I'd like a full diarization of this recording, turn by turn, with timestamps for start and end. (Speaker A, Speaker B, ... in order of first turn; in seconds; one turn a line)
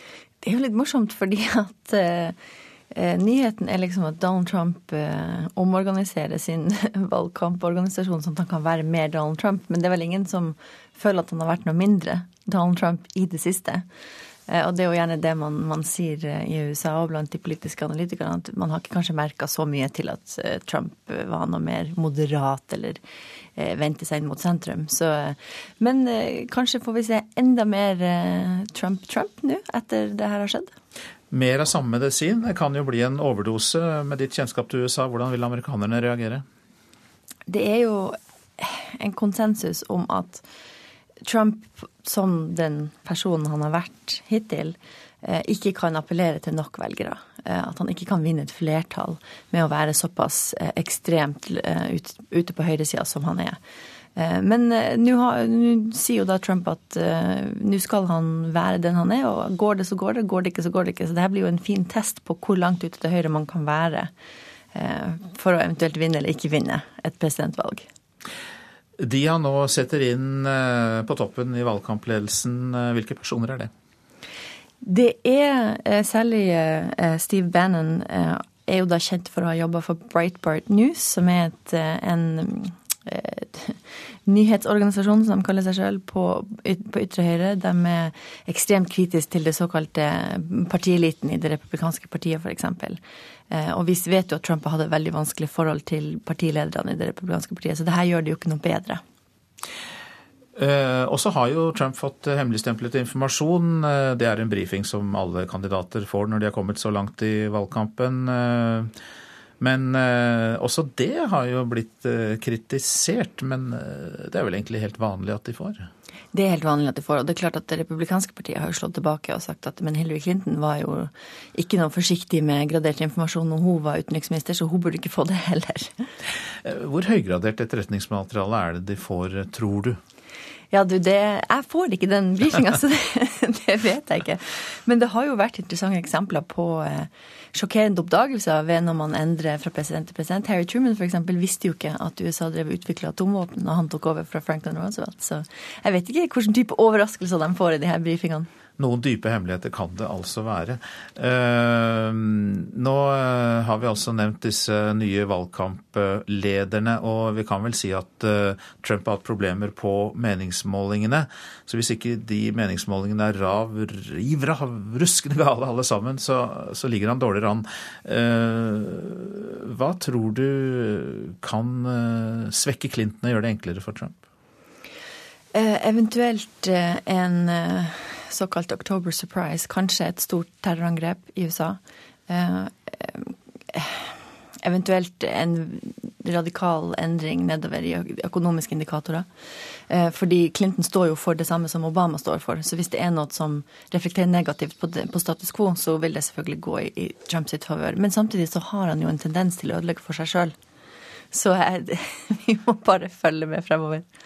Speaker A: 0.4-2.4
Speaker A: 2.9-13.9
Speaker A: 14.5-23.0
Speaker A: 23.6-30.7
Speaker B: 31.3-36.4
Speaker A: 37.5-40.4
Speaker A: 41.3-53.6
Speaker A: 54.2-64.1
Speaker A: 64.8-67.9
Speaker B: 69.0-73.7
Speaker A: 74.8-93.0
Speaker A: 93.5-99.0
Speaker B: 100.6-108.9
Speaker B: 109.6-115.9
Speaker A: 116.3-125.9
Speaker B: 126.6-130.0
Speaker A: 130.7-148.5
Speaker B: 148.8-174.2
Speaker A: 175.6-184.0
Speaker A: 184.6-189.3
Speaker A: 189.9-200.5
Speaker A: 201.3-204.1